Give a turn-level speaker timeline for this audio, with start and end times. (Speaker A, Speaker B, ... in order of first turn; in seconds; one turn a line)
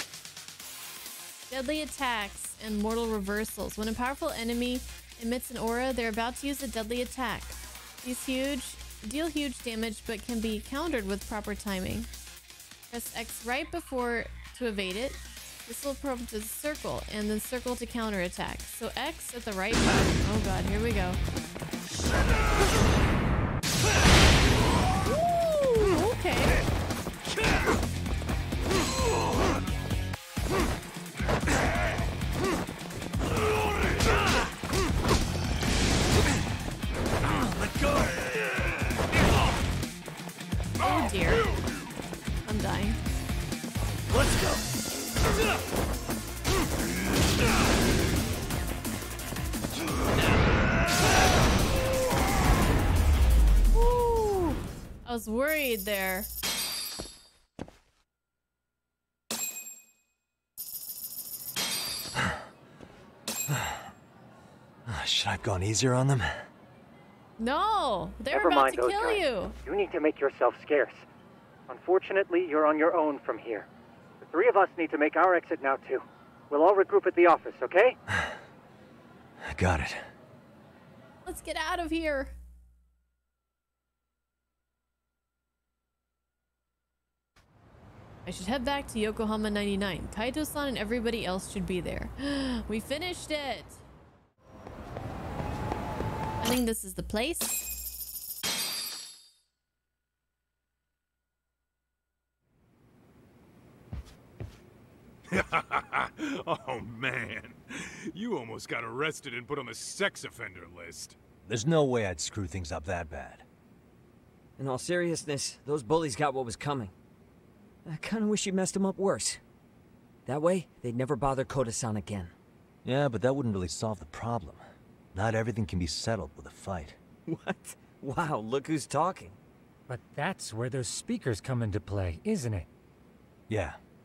Speaker A: 1.5-12.1
Speaker A: 12.9-21.2
Speaker A: 25.0-26.6
Speaker B: 37.5-38.2
Speaker A: 40.8-41.5
Speaker A: 42.4-43.0
Speaker B: 44.1-44.5
Speaker A: 53.7-56.3
Speaker B: 63.5-63.9
Speaker B: 64.8-66.5
Speaker A: 67.4-69.5
Speaker C: 68.3-71.0
Speaker C: 71.7-73.7
Speaker C: 74.2-78.0
Speaker B: 79.4-80.0
Speaker A: 81.2-82.3
Speaker A: 88.2-93.8
Speaker A: 96.4-97.7
Speaker D: 105.3-111.2
Speaker B: 111.5-113.5
Speaker E: 114.6-116.9
Speaker E: 117.9-119.4
Speaker E: 120.2-122.3
Speaker B: 122.8-124.6
Speaker B: 125.1-127.0
Speaker E: 127.3-129.4
Speaker F: 129.9-132.7
Speaker B: 133.5-133.8